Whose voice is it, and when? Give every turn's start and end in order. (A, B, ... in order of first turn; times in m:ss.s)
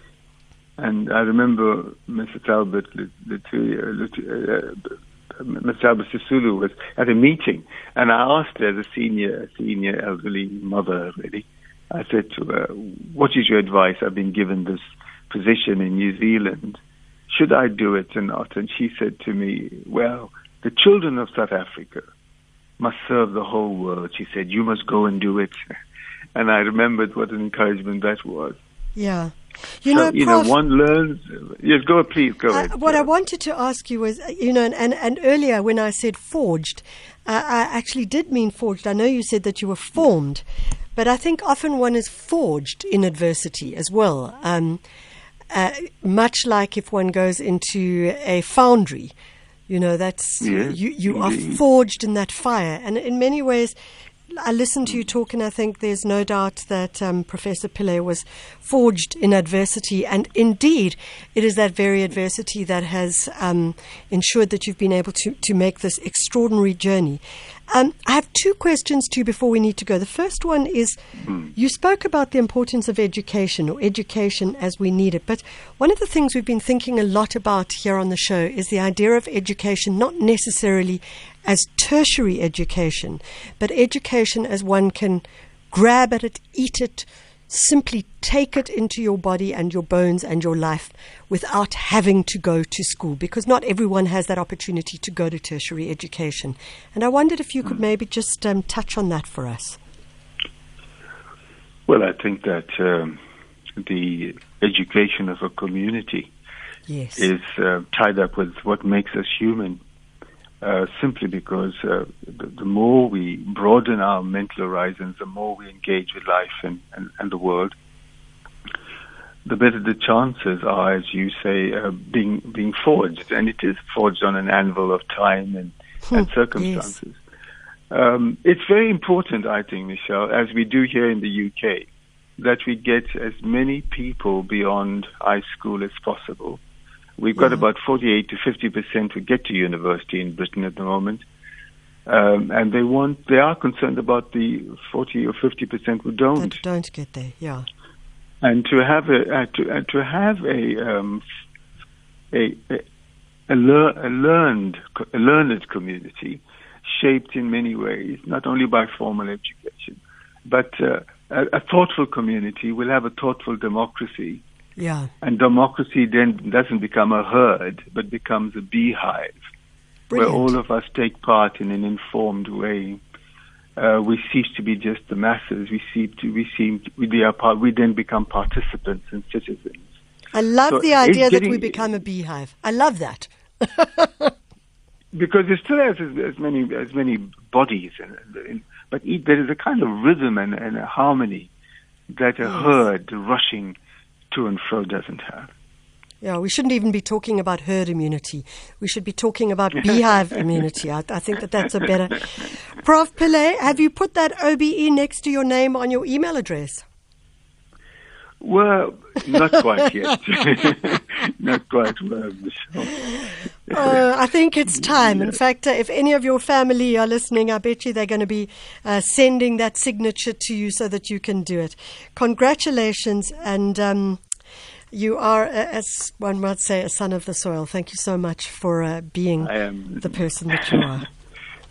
0:00.8-0:22.1 A
0:22.8-0:25.6 A
0:26.4-0:28.6 A
0:29.0-0:30.6 B
0:29.9-0:33.1 A
0:32.5-0:40.4 B
0:41.0-0:44.8 B
0:45.5-0:49.1 B
0:49.7-0:53.8 B
0:50.4-0:51.6 A
0:54.3-1:39.8 B
1:41.9-1:43.2 A
1:43.8-1:46.3 A
1:46.9-1:47.3 B
1:47.2-1:49.8 A
1:50.6-1:57.8 A
1:59.5-2:07.2 A
2:06.1-2:06.9 B
2:07.9-2:11.9 A
2:12.4-2:16.6 A
2:17.2-2:21.3 A
2:17.4-2:17.6 B
2:22.1-2:26.6 A
2:26.4-2:27.7 B
2:28.4-2:31.2 A
2:32.3-2:32.8 A
2:33.5-2:44.4 A
2:44.8-2:45.1 B
2:45.2-2:49.4 A
2:50.1-2:50.5 B
2:50.1-2:53.0 A
2:53.8-2:59.9 A
3:00.3-3:04.3 B
3:00.7-3:01.8 A
3:05.1-3:11.5 A
3:12.1-3:13.8 A
3:12.4-3:12.8 B
3:14.3-3:15.5 A
3:16.2-3:26.8 B
3:28.4-3:34.0 A
3:33.7-3:44.2 B
3:44.9-3:51.1 B
3:49.4-3:50.2 A